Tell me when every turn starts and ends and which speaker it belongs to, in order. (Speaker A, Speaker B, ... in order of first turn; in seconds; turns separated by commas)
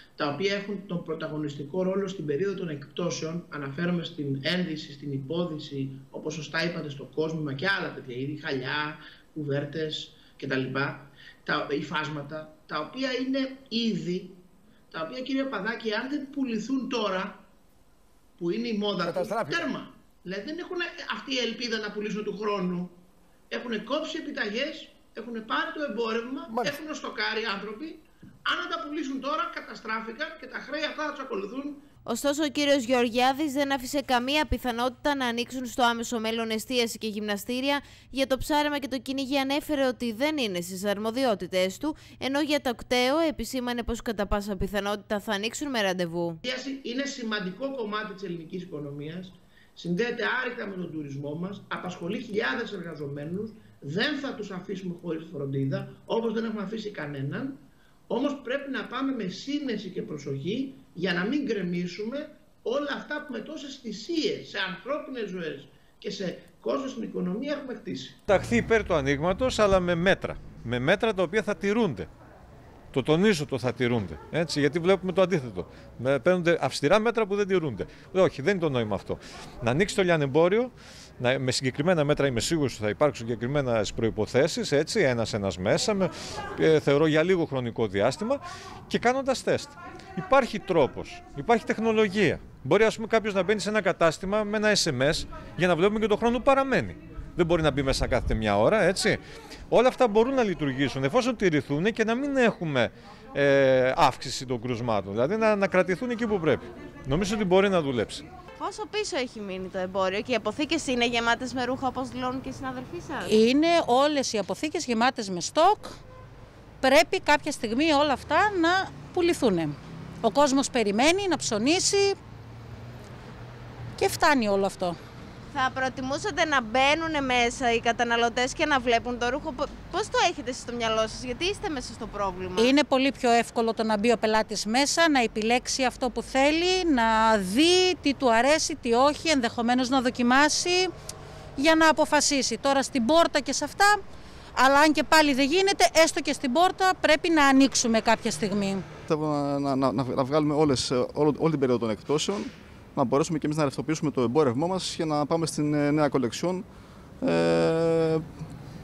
Speaker A: 0.2-17.4, Speaker A: 18.4-31.8, Speaker B: 32.0-46.4, Speaker A: 46.4-68.2, Speaker C: 68.3-72.1, Speaker C: 72.9-108.2, Speaker B: 108.6-113.3, Speaker D: 113.2-116.0, Speaker D: 116.8-122.2, Speaker D: 124.0-125.0, Speaker B: 125.5-132.7, Speaker D: 132.6-140.9, Speaker D: 141.6-144.0, Speaker D: 144.6-148.8, Speaker E: 149.1-156.6, Speaker E: 157.2-158.2